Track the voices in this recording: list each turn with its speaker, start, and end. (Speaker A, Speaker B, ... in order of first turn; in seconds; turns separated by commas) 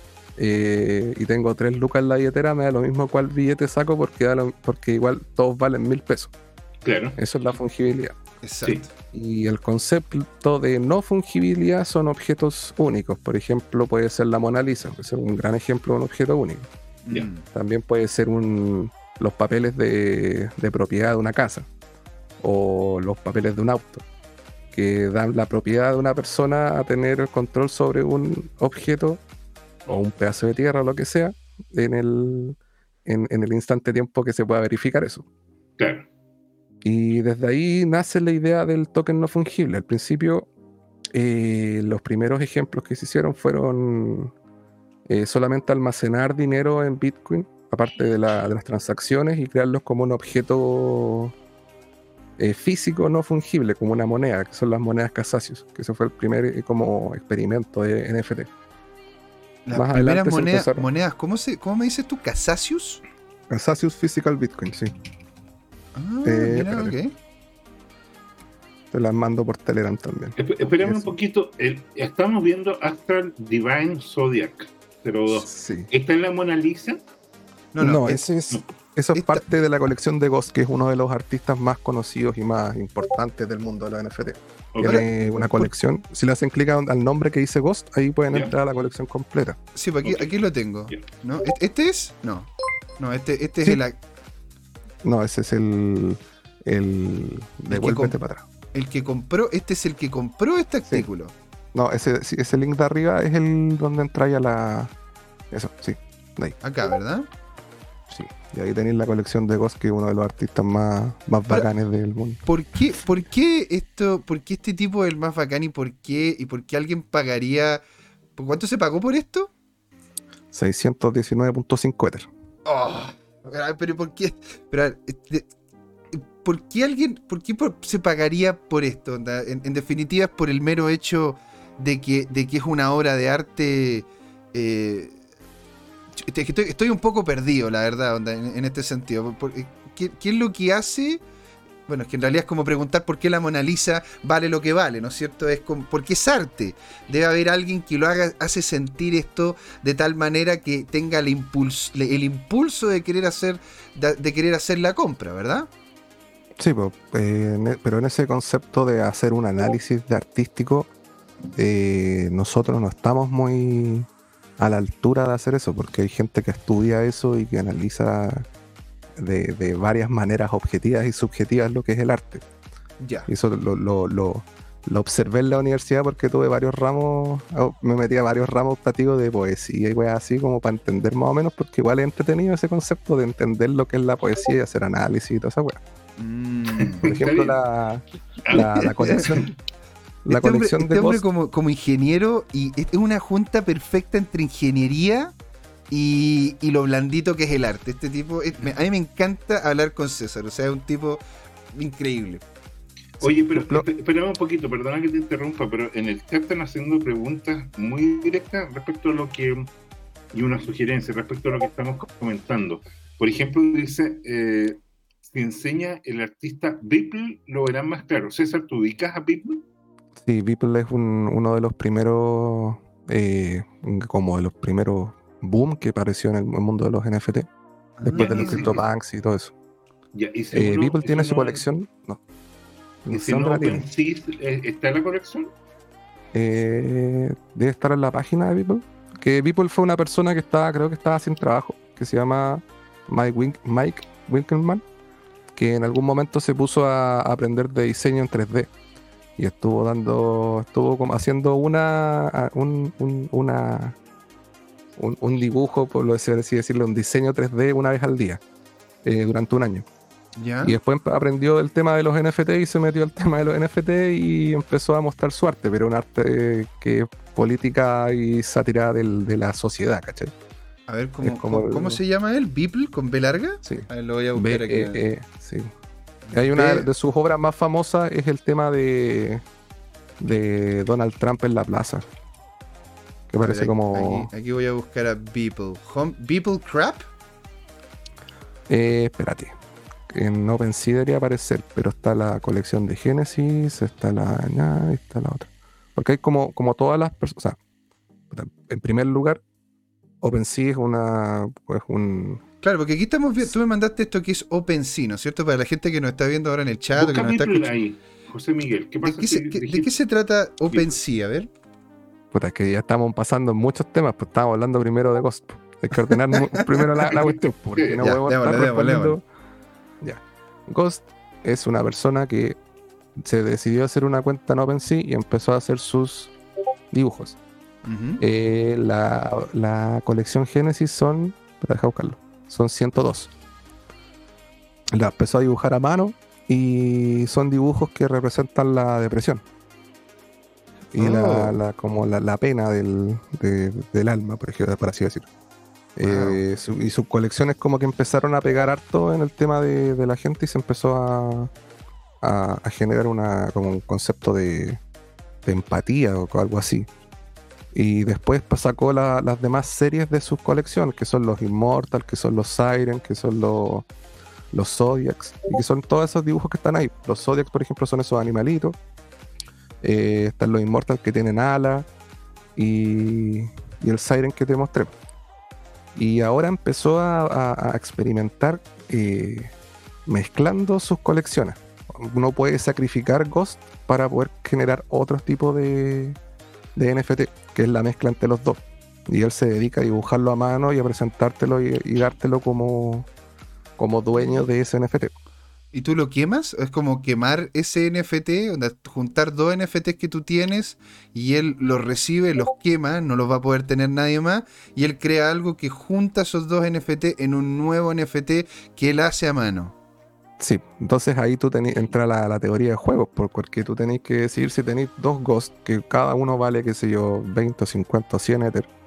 Speaker A: 0.4-6.3, Speaker B: 6.8-7.2, Speaker A: 7.2-8.2, Speaker C: 8.4-8.9, Speaker A: 9.1-16.7, Speaker C: 17.1-17.5, Speaker A: 17.5-21.7, Speaker A: 22.4-24.1, Speaker A: 24.7-29.2, Speaker A: 29.9-35.2, Speaker B: 35.8-36.1, Speaker A: 36.8-40.5, Speaker A: 41.1-44.3, Speaker A: 45.1-51.3, Speaker A: 52.4-58.5, Speaker C: 59.7-63.0, Speaker A: 59.7-60.9, Speaker A: 63.5-64.9, Speaker C: 65.9-67.1, Speaker A: 66.2-67.0, Speaker A: 68.9-71.2, Speaker B: 70.4-77.0, Speaker A: 75.4-75.9, Speaker C: 77.7-78.2, Speaker A: 77.8-89.6, Speaker C: 79.1-79.4, Speaker B: 84.7-85.1, Speaker C: 84.8-85.7, Speaker C: 89.8-94.0, Speaker B: 90.0-90.3, Speaker A: 95.0-98.4, Speaker C: 97.7-98.2, Speaker C: 98.7-101.3, Speaker A: 101.7-104.9, Speaker A: 105.5-106.6, Speaker C: 106.6-107.3, Speaker A: 108.1-112.4, Speaker C: 112.5-117.8, Speaker C: 118.4-119.5, Speaker A: 120.5-122.3, Speaker C: 122.7-125.5, Speaker C: 126.1-135.2, Speaker C: 136.1-141.2, Speaker C: 141.9-155.7, Speaker A: 156.6-160.9, Speaker A: 161.6-164.1, Speaker A: 164.6-168.5, Speaker A: 169.2-172.4, Speaker C: 173.0-173.3, Speaker A: 173.3-185.8, Speaker C: 186.2-187.2, Speaker B: 186.8-187.6, Speaker A: 187.0-189.5, Speaker B: 188.4-189.3, Speaker C: 188.5-189.3, Speaker A: 190.2-191.2, Speaker C: 190.3-195.3, Speaker C: 195.9-201.2, Speaker C: 201.7-202.4, Speaker B: 203.2-209.7, Speaker A: 203.2-203.9, Speaker B: 210.3-219.6, Speaker A: 220.2-227.5, Speaker C: 228.0-228.8, Speaker A: 228.1-229.5, Speaker B: 228.1-228.8, Speaker B: 230.1-231.7, Speaker A: 230.5-232.2, Speaker A: 233.0-233.9, Speaker B: 233.1-235.5, Speaker A: 236.3-244.8, Speaker A: 245.6-248.7, Speaker A: 249.4-254.0, Speaker A: 255.0-258.4, Speaker A: 259.0-259.9, Speaker C: 260.4-260.8, Speaker A: 260.6-270.3, Speaker C: 270.9-275.0, Speaker A: 271.2-272.0, Speaker A: 273.6-275.7, Speaker C: 276.3-276.9, Speaker A: 276.3-279.4, Speaker A: 280.2-282.1, Speaker A: 283.3-284.3, Speaker C: 283.4-287.1, Speaker A: 288.7-289.5, Speaker A: 290.1-297.6, Speaker A: 298.3-299.4, Speaker A: 300.2-302.4, Speaker C: 302.6-307.7, Speaker B: 306.9-309.9, Speaker C: 309.0-311.5, Speaker B: 310.7-311.0, Speaker A: 312.3-319.2, Speaker C: 315.9-317.1, Speaker B: 317.1-318.0, Speaker C: 318.0-319.2, Speaker A: 320.0-322.6, Speaker A: 323.2-326.3, Speaker A: 326.9-327.4, Speaker C: 327.8-328.2, Speaker A: 328.2-333.3, Speaker A: 334.9-339.4, Speaker A: 340.9-345.3, Speaker C: 341.0-341.6, Speaker A: 346.0-351.5, Speaker C: 346.0-346.4, Speaker A: 352.2-354.8, Speaker A: 355.4-356.9, Speaker A: 357.7-363.9, Speaker A: 364.5-368.8, Speaker A: 369.8-371.9, Speaker A: 372.6-374.9, Speaker A: 375.9-379.5, Speaker A: 380.1-386.2, Speaker A: 386.8-393.1, Speaker A: 393.8-395.1, Speaker C: 394.2-394.4, Speaker C: 395.7-409.8, Speaker A: 410.4-418.7